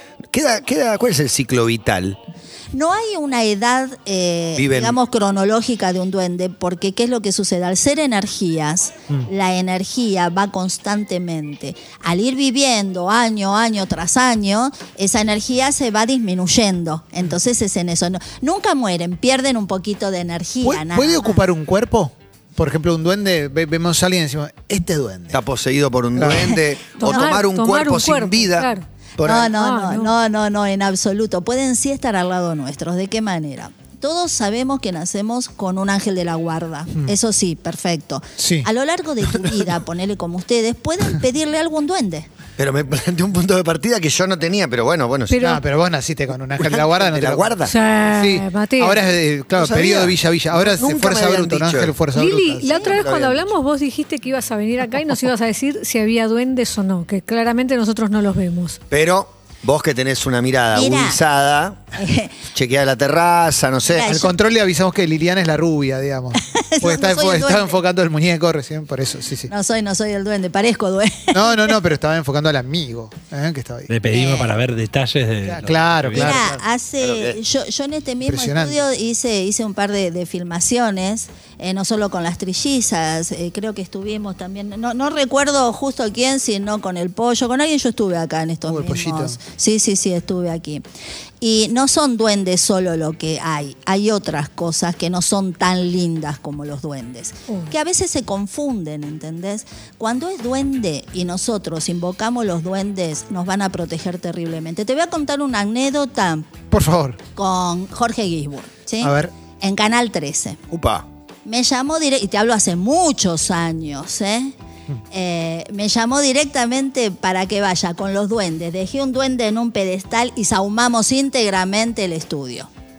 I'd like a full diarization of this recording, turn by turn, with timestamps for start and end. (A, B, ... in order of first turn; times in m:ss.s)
0:00.3-0:02.2 A
0:02.7-0:21.4 B
0:04.6-0:05.0 A
0:20.6-0:25.4 C
0:25.3-0:29.6 A
0:26.2-0:26.6 C
0:27.0-0:28.9 D
0:29.2-0:42.3 B
0:29.5-0:30.1 D
0:38.4-0:38.7 C
0:39.2-0:39.7 C
0:42.6-0:45.4 A
0:45.3-0:45.6 D
0:45.4-0:47.6 C
0:46.6-0:47.8 A
0:47.6-0:49.0 D
0:48.1-0:53.0 C
0:49.6-0:52.0 A
0:52.1-0:58.8 D
0:52.7-0:53.0 B
0:52.8-0:53.6 A
0:58.9-1:01.8 A
1:00.7-1:01.2 B
1:02.0-1:02.4 B
1:02.5-1:04.2 A
1:03.9-1:04.3 B
1:04.0-1:09.5 C
1:06.4-1:07.8 B
1:09.5-1:11.8 B
1:11.3-1:13.9 C
1:13.9-1:16.5 E
1:14.1-1:14.6 B
1:15.4-1:16.6 C
1:16.1-1:30.8 B
1:17.0-1:17.4 A
1:18.2-1:18.8 C
1:28.7-1:29.4 C
1:31.4-1:46.5 B
1:37.5-1:37.7 D
1:46.7-1:47.2 C
1:47.4-1:50.6 B
1:49.0-1:49.3 C
1:50.7-1:51.1 A
1:51.4-1:54.5 B
1:55.1-2:02.7 B